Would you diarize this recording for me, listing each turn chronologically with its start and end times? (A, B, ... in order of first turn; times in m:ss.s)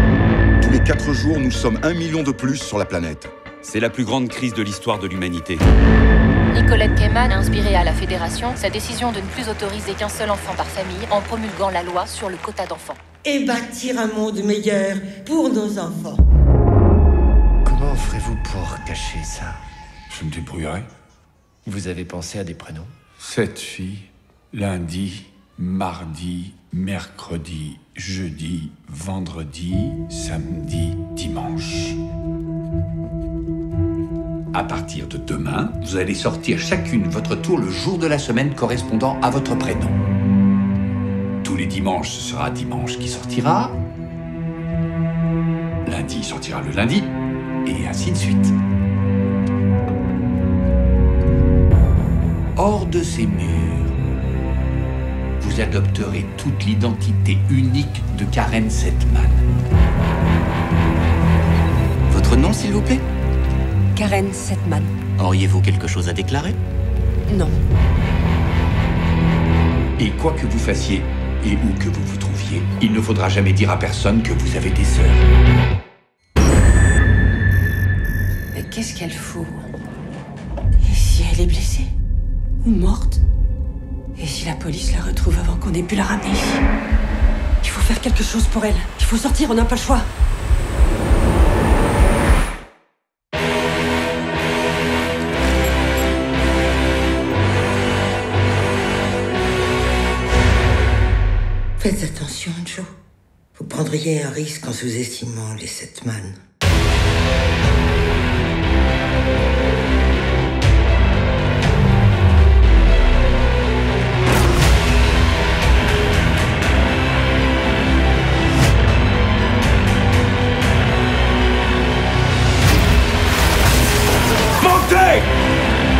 0:00.6-0:03.3 A
0:03.6-0:05.6 B
0:06.5-0:13.0 C
0:13.2-0:16.2 D
0:17.6-0:19.6 E
0:20.1-0:20.9 F
0:21.6-0:22.9 E
0:23.2-0:32.0 F
0:34.5-0:40.0 F
0:41.4-0:43.8 F
0:45.8-0:47.1 F
0:47.6-0:48.5 F
0:52.6-0:54.0 F
0:55.4-0:59.4 F
1:02.1-1:03.0 G
1:04.0-1:04.9 H
1:05.2-1:06.6 G
1:07.3-1:07.6 H
1:10.0-1:15.2 F
1:18.5-1:19.6 H
1:20.8-1:21.9 H
1:22.6-1:23.2 H
1:24.2-1:26.6 H
1:27.6-1:30.0 H
1:41.8-1:42.9 D
1:43.6-1:46.3 D
2:04.6-2:05.3 F